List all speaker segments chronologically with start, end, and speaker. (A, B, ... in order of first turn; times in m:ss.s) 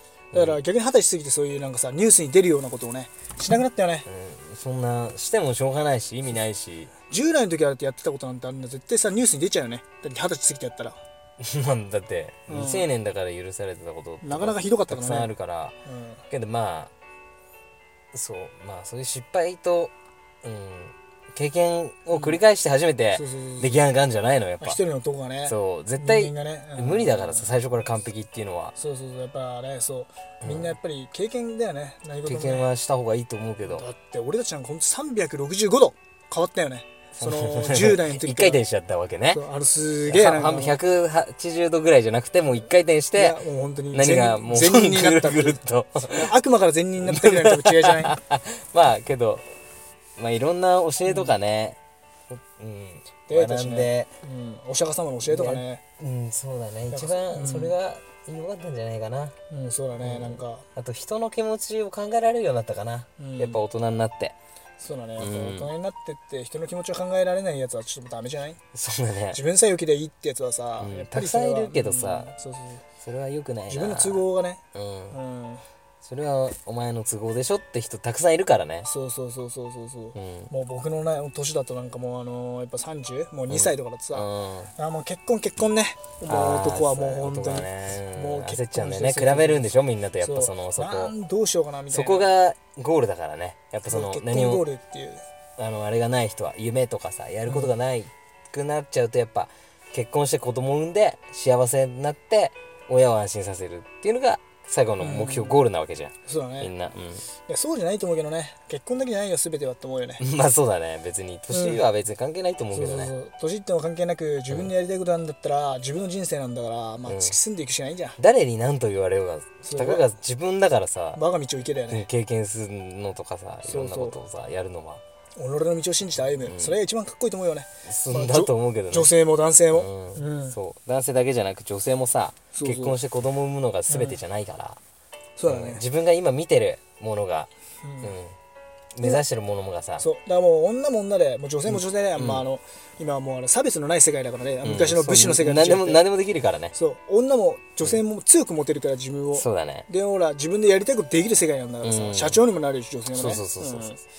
0:00.3-0:00.6 A
0:00.3-0:04.1 B
0:04.0-0:06.9 A
0:07.1-0:11.0 B
0:11.4-0:15.8 A
0:12.5-0:12.9 B
0:14.2-0:15.3 B
0:15.8-0:16.2 B
0:16.3-0:16.9 A
0:18.1-0:19.9 A
0:20.4-0:24.8 A
0:22.1-0:22.4 B
0:23.1-0:23.8 B
0:24.6-0:27.5 B
0:25.4-0:28.7 A
0:28.8-0:32.6 B
0:30.4-0:30.8 A
0:32.2-0:33.8 A
0:33.6-0:38.6 B
0:37.1-0:39.4 A
0:39.3-0:40.8 B
0:40.1-0:43.4 A
0:43.2-0:45.6 B
0:43.9-0:46.3 A
0:46.1-0:48.2 B
0:47.0-0:49.5 A
0:50.2-0:51.8 A
0:51.0-0:51.3 B
0:52.3-0:54.1 A
0:53.3-0:55.8 B
0:55.2-0:59.4 A
0:56.9-0:57.7 B
0:59.5-1:00.6 B
1:00.0-1:04.3 A
1:03.2-1:03.6 B
1:04.8-1:08.6 B
1:05.2-1:05.7 A
1:08.7-1:09.4 A
1:09.3-1:12.8 B
1:10.8-1:12.3 A
1:13.0-1:15.2 A
1:13.7-1:15.6 B
1:16.0-1:18.9 A
1:18.8-1:24.2 B
1:20.1-1:20.5 A
1:23.5-1:24.7 A
1:24.8-1:32.3 B
1:26.3-1:31.1 A
1:31.9-1:34.6 A
1:33.9-1:35.2 B
1:35.6-1:47.3 A
1:37.4-1:37.7 B
1:45.0-1:45.6 B
1:46.2-1:46.7 B
1:47.4-1:50.2 B
1:50.2-1:53.1 A
1:51.5-1:51.8 B
1:52.7-1:58.2 B
1:57.1-1:57.4 A
1:58.2-2:01.2 A
1:59.6-2:00.0 B
2:01.1-2:02.0 B
2:01.9-2:05.0 A
2:03.7-2:04.2 B
2:05.4-2:10.6 B
2:06.4-2:06.8 A
2:07.8-2:09.1 A
2:09.7-2:14.8 A
2:12.5-2:13.0 B
2:13.9-2:14.2 B
2:15.4-2:15.8 B
2:15.5-2:17.5 A
2:17.8-2:18.1 B
2:18.0-2:18.4 A
2:18.9-2:20.0 A
2:20.0-2:26.0 B
2:21.7-2:22.4 A
2:24.6-2:26.7 A
2:26.7-2:34.0 B
2:29.3-2:29.9 A
2:31.8-2:32.4 A
2:33.1-2:34.0 A